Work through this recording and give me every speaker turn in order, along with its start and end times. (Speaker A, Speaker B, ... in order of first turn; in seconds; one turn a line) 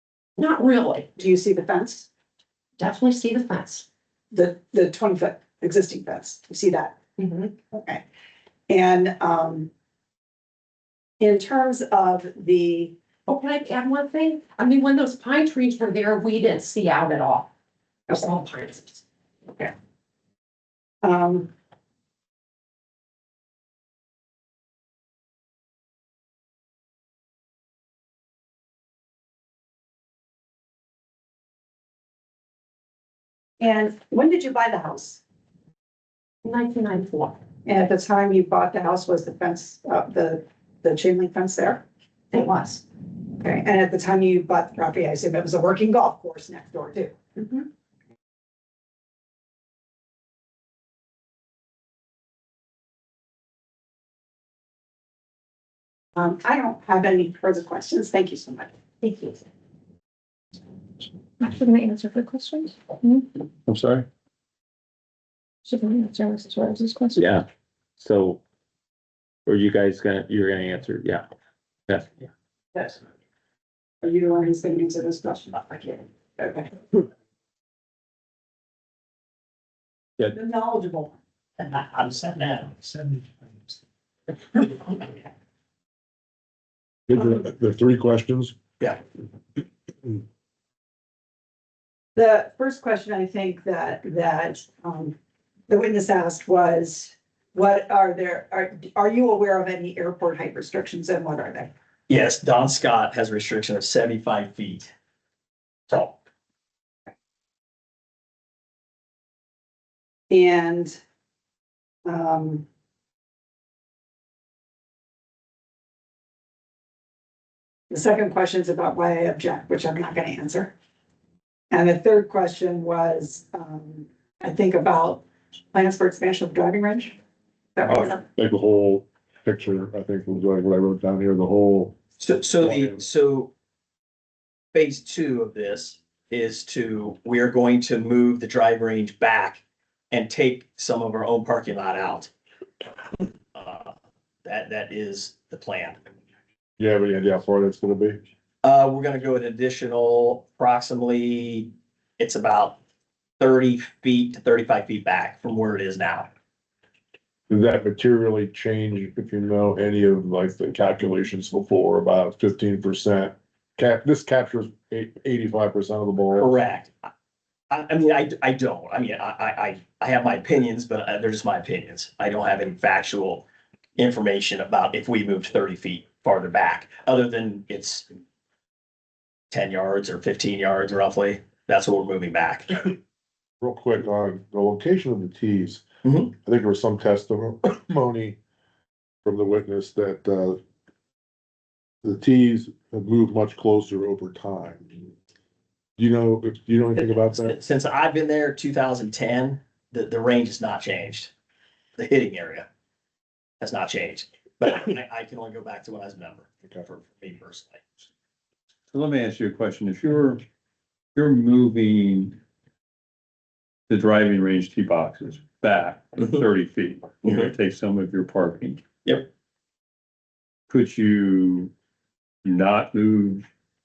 Speaker A: 0.4-1.1
Speaker B: 1.2-2.1
Speaker A: 2.8-3.9
Speaker B: 4.3-8.0
Speaker A: 7.2-7.5
Speaker B: 8.7-9.7
Speaker B: 11.2-13.0
Speaker A: 13.3-17.5
Speaker A: 18.1-19.0
Speaker B: 21.0-21.5
Speaker B: 33.6-35.2
Speaker A: 36.4-37.4
Speaker B: 37.6-42.8
Speaker B: 43.4-47.7
Speaker B: 56.2-58.7
Speaker A: 59.0-59.4
Speaker C: 61.6-62.8
Speaker D: 63.7-64.1
Speaker A: 65.9-66.6
Speaker C: 66.0-67.1
Speaker E: 67.1-67.4
Speaker E: 68.0-68.4
Speaker E: 69.5-71.2
Speaker B: 74.0-76.7
Speaker B: 80.2-81.2
Speaker F: 81.6-82.8
Speaker G: 87.1-88.5
Speaker B: 92.2-95.2
Speaker B: 95.7-101.7
Speaker F: 102.1-104.9
Speaker F: 105.9-106.2
Speaker B: 110.3-111.0
Speaker B: 112.0-112.7
Speaker B: 117.9-120.7
Speaker B: 121.7-127.2
Speaker B: 127.8-128.2
Speaker G: 128.0-132.0
Speaker F: 132.2-133.5
Speaker G: 132.6-133.0
Speaker F: 134.7-142.3
Speaker F: 143.5-146.0
Speaker G: 146.8-148.2
Speaker F: 148.6-152.8
Speaker F: 153.4-156.3
Speaker G: 157.5-166.5
Speaker F: 166.4-167.1
Speaker F: 167.7-173.4
Speaker F: 174.0-178.1
Speaker F: 179.5-182.9
Speaker G: 183.6-188.4
Speaker F: 186.0-186.3
Speaker G: 189.2-190.6
Speaker G: 192.0-195.1
Speaker G: 196.0-197.6
Speaker F: 197.0-201.3
Speaker F: 202.0-202.7
Speaker F: 203.6-207.8
Speaker D: 208.9-210.4
Speaker D: 211.2-212.4
Speaker D: 213.9-218.8
Speaker F: 217.2-217.5
Speaker D: 220.7-221.7
Speaker D: 222.4-223.4